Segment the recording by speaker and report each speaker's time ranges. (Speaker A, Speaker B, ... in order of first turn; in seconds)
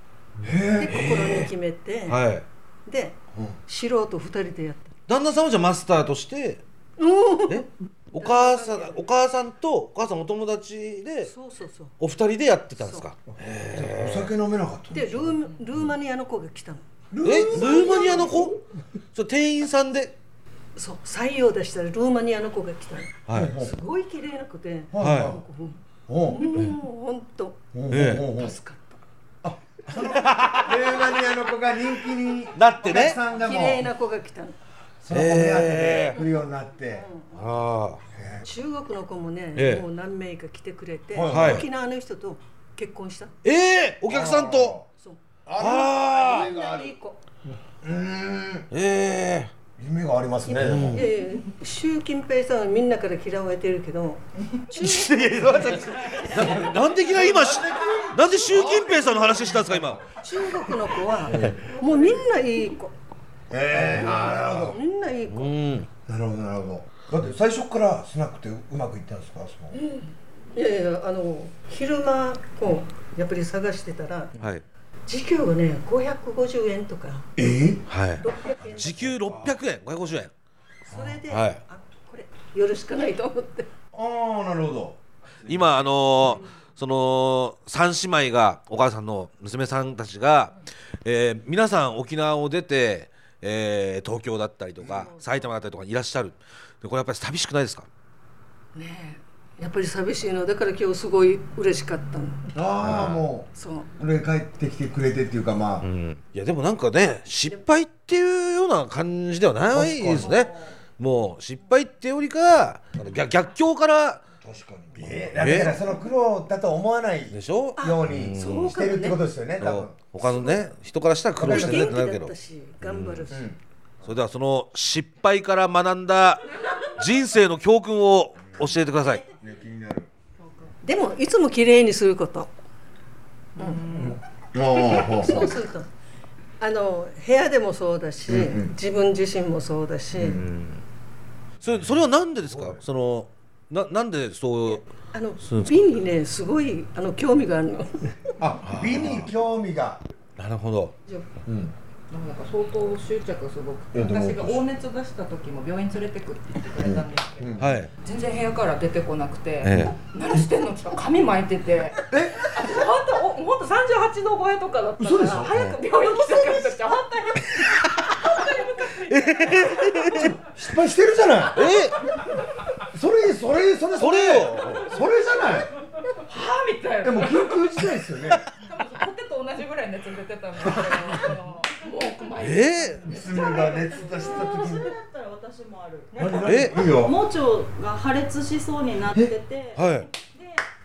Speaker A: 0.4-0.9, 13.7-15.3, 17.1-18.5, 23.3-23.8, 24.9-25.4, 26.1-26.5, 27.7-28.6, 29.4-33.9, 35.0-37.0, 38.1-38.4, 41.1-41.6, 44.1-44.9, 45.5-46.9, 47.8-48.6, 49.8-51.0, 56.3-59.8, 61.2-61.6, 63.5-64.8, 66.0-69.8, 77.4-77.8, 79.1-79.5, 83.9-85.8, 102.5-105.8, 109.7-110.5, 114.4-119.9, 121.4-121.9, 123.3-123.5, 129.4-130.1, 133.8-135.6, 138.3-138.7, 140.1-140.4, 148.4-150.0, 151.4-151.7, 153.9-154.6, 156.8-157.9, 162.1-162.8, 165.0-165.5, 170.1-171.7, 172.9-175.7, 177.0-178.4, 180.9-181.3, 183.1-184.9, 186.1-187.2
Speaker B: 0.7-2.2, 2.9-4.9, 7.0-9.0, 11.2-11.9, 12.8-13.1, 14.9-16.8, 17.4-18.3, 20.8-27.7, 28.3-29.0, 33.3-34.6, 36.9-37.3, 38.4-43.3, 44.9-45.2, 46.2-47.2, 50.5-56.1, 60.2-62.9, 64.1-65.6, 69.7-74.3, 75.1-77.3, 78.2-78.9, 80.9-83.7, 94.9-95.2, 98.7-102.5, 103.5-103.9, 117.8-119.2, 120.2-120.6, 121.4-123.5, 130.8-132.5, 133.6-133.8, 134.7-135.9, 136.6-140.4, 144.6-148.1, 165.9-166.7
Speaker C: 0.8-1.5, 2.1-2.4, 5.1-6.6, 7.5-11.3, 12.0-14.3, 17.2-18.6, 19.1-20.1, 23.3-23.6, 25.0-25.4, 27.9-28.3, 30.0-30.7, 32.5-33.2, 35.1-36.2, 37.3-38.0, 39.5-39.9, 41.3-41.7, 43.4-44.9, 45.6-46.5, 48.7-49.5, 50.6-51.1, 54.7-60.0, 63.7-64.7, 65.3-65.9, 77.9-80.3, 81.3-81.6, 85.5-97.9, 102.8-103.2, 105.8-114.2, 115.3-115.8, 117.3-119.0, 119.6-123.3, 124.0-129.2, 140.3-140.8, 141.6-144.8, 145.4-145.9, 148.6-149.3, 150.4-151.0, 157.6-157.9, 159.6-159.9, 169.1-170.4, 171.5-172.0, 174.0-174.8, 182.4-183.1, 186.4-186.8, 189.7-190.1
Speaker D: 152.1-157.5, 158.0-169.9, 176.0-177.6, 178.7-183.8, 186.2-186.4
Speaker E: 183.4-186.1, 186.9-190.6